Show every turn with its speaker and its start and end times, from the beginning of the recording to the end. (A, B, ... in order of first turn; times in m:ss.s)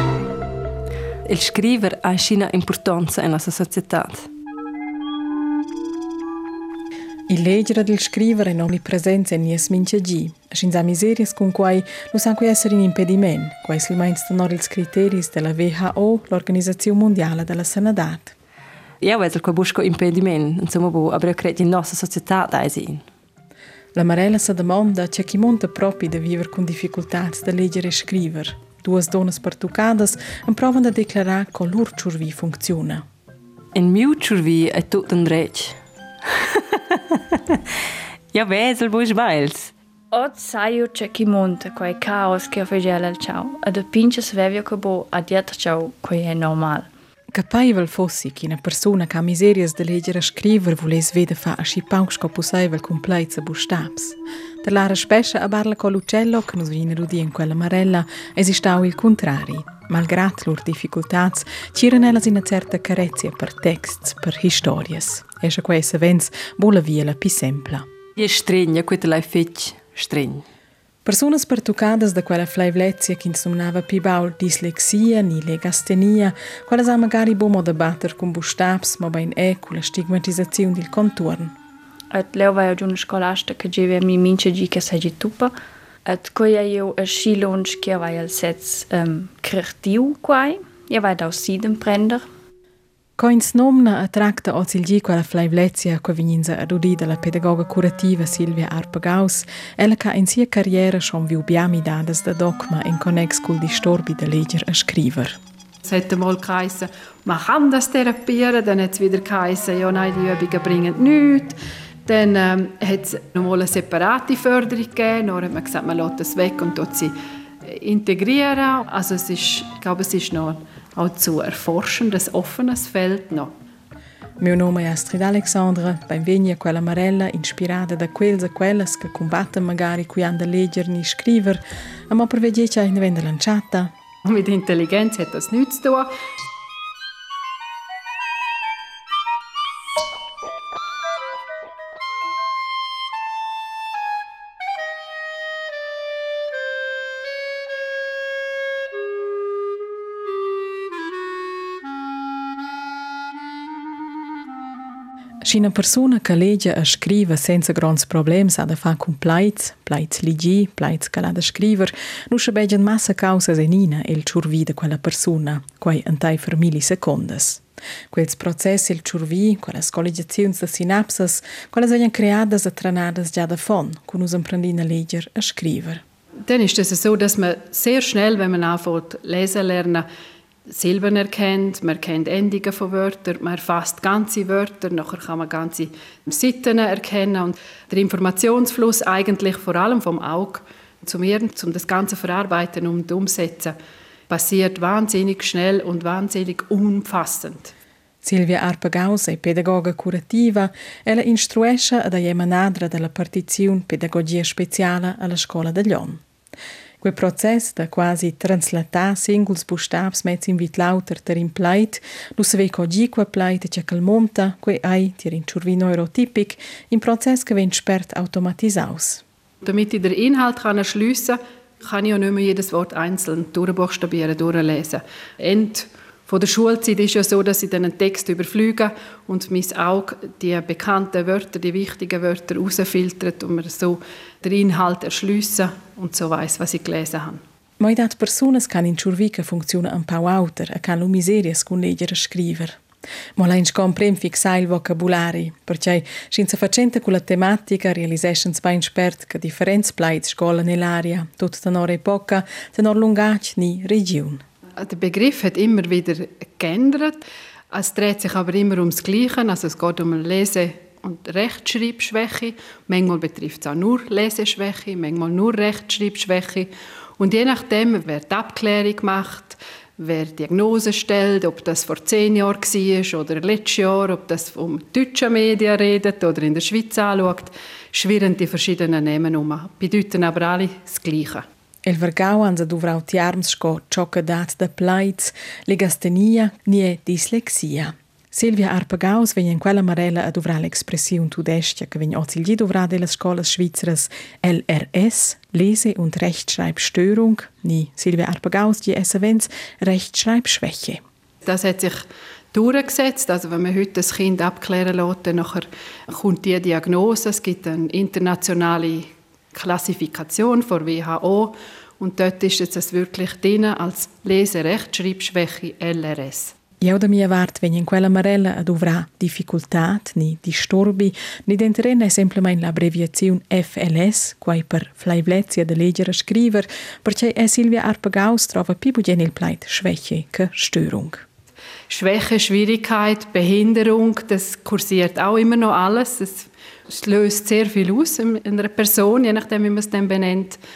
0:01.3-0:04.3 A
0:07.3-0:18.4 B
0:19.0-0:23.0 A
0:23.9-0:33.0 B
0:33.7-0:35.8 A
0:36.3-0:37.6 A
0:38.3-0:39.7 A
0:40.1-0:46.9 C
0:47.3-1:07.9 B
1:08.2-1:10.4 A
1:11.0-1:21.5 B
1:22.1-1:25.5 C
1:26.0-1:32.2 C
1:33.2-1:45.4 B
1:45.8-1:57.1 D
1:57.6-2:03.5 D
2:04.4-2:13.9 B
2:14.2-2:16.1 D
2:35.4-2:56.0 B
2:56.5-3:00.1 D
3:00.7-3:13.8 D
3:14.3-3:17.7 D
3:18.2-3:26.2 B
3:27.0-3:39.2 B
3:39.6-3:57.4 D
3:57.8-4:02.8 B
4:03.4-4:14.4 B
4:14.8-4:41.4 D
4:41.8-5:01.0 B
5:01.4-5:02.0 D
5:02.5-5:16.6 D
5:16.8-5:31.2 B
5:31.9-5:40.6 D